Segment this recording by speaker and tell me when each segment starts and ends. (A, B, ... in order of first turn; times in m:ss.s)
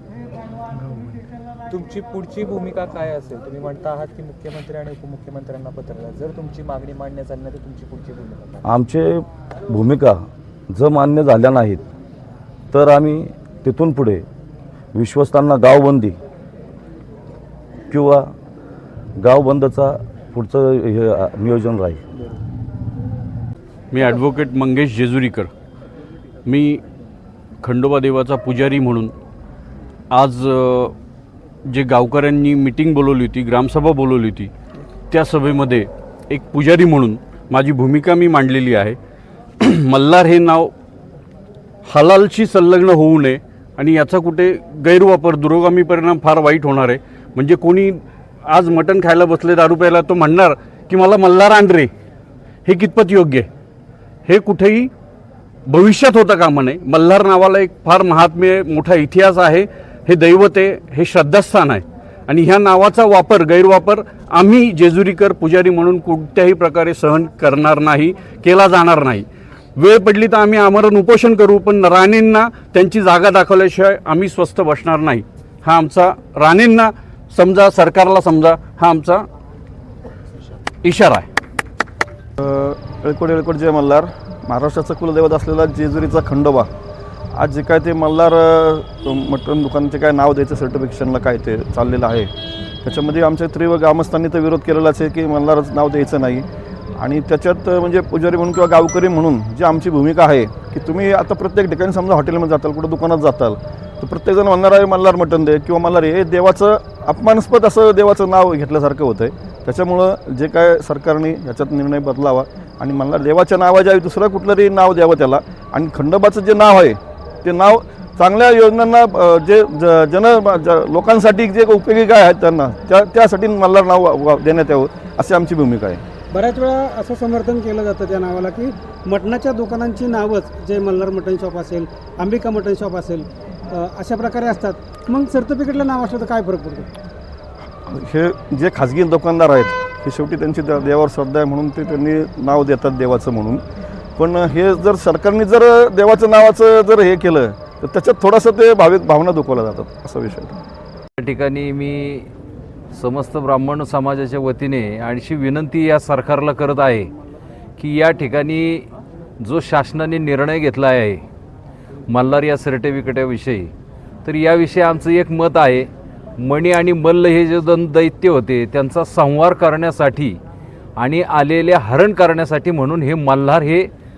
0:01.7-0:08.6 A
0:08.6-0:11.8 B
0:12.7-0:14.3 B
0:14.9-0:16.2 B
0:17.9-0:18.3 B
0:19.2-0:22.0 B
0:23.9-0:25.5 C
0:26.5-0:26.8 C
0:27.6-0:29.1 C
0:30.1-0:31.0 C
0:31.7-0:34.5 C
0:35.1-0:39.0 C
0:39.6-0:40.7 C
0:41.9-0:51.9 C
0:52.6-0:53.5 C
0:54.3-0:54.9 C
0:55.7-1:19.3 C
1:20.8-1:21.3 C
1:22.4-1:26.7 D
1:27.3-1:32.3 D
1:32.8-2:06.0 D
2:06.3-2:16.9 E
2:17.9-2:23.6 D
2:24.2-2:30.6 D
2:31.2-2:32.3 F
2:32.9-2:37.1 F
2:37.8-2:38.9 F
2:39.4-2:41.2 F
2:42.1-2:43.7 F
2:44.2-2:50.4 F
2:51.0-2:53.9 F